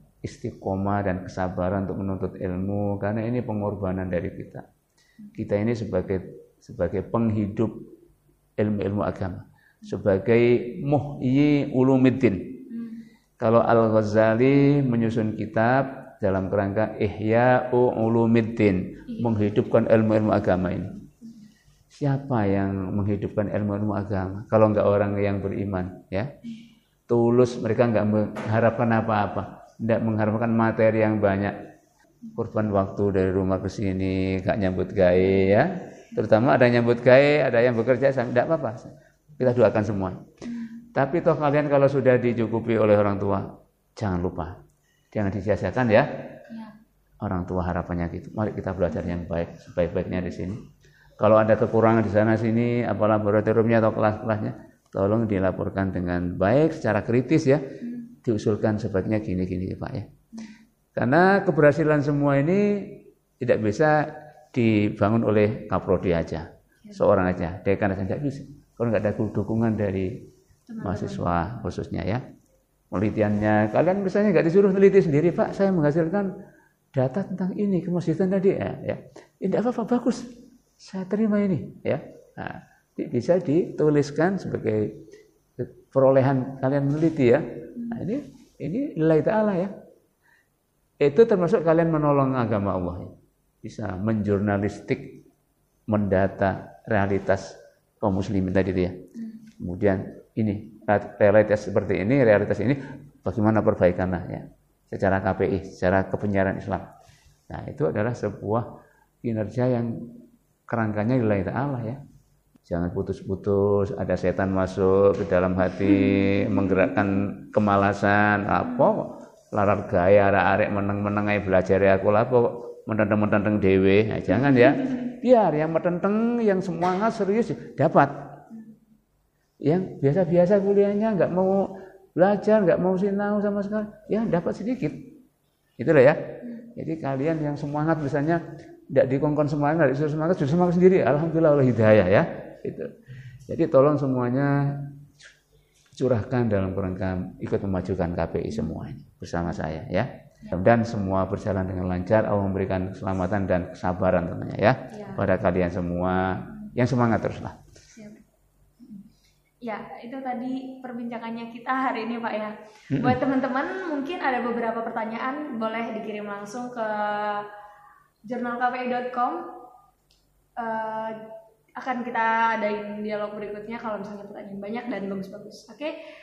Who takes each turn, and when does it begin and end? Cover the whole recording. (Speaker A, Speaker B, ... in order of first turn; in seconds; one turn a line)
Speaker A: 0.2-4.7
Speaker A: 5.3-7.9
Speaker A: 8.6-12.6
Speaker B: 12.7-13.0
Speaker A: 13.4-21.0
Speaker B: 19.1-19.5
Speaker A: 21.9-26.3
Speaker A: 27.1-31.6
Speaker A: 32.3-40.2
Speaker B: 40.5-40.8
Speaker A: 40.9-44.6
Speaker A: 45.1-46.1
Speaker A: 47.2-50.6
Speaker A: 51.2-57.6
Speaker B: 57.8-58.1
Speaker A: 58.1-60.1
Speaker A: 60.9-70.2
Speaker B: 70.7-71.3
Speaker A: 70.8-72.2
Speaker A: 72.9-76.3
Speaker A: 76.9-85.0
Speaker A: 85.6-89.7
Speaker B: 87.8-88.0
Speaker A: 91.0-95.2
Speaker A: 95.9-99.0
Speaker B: 99.2-99.5
Speaker A: 99.6-106.9
Speaker A: 107.5-108.7
Speaker A: 109.2-110.1
Speaker A: 110.7-112.0
Speaker A: 112.7-128.1
Speaker A: 129.6-135.1
Speaker A: 135.8-142.9
Speaker A: 143.5-144.9
Speaker A: 146.0-157.6
Speaker B: 148.5-148.8
Speaker B: 154.9-155.2
Speaker B: 157.9-158.2
Speaker B: 159.6-167.5
Speaker A: 162.9-163.2
Speaker B: 168.3-169.5
Speaker B: 170.6-171.2
Speaker B: 171.8-175.9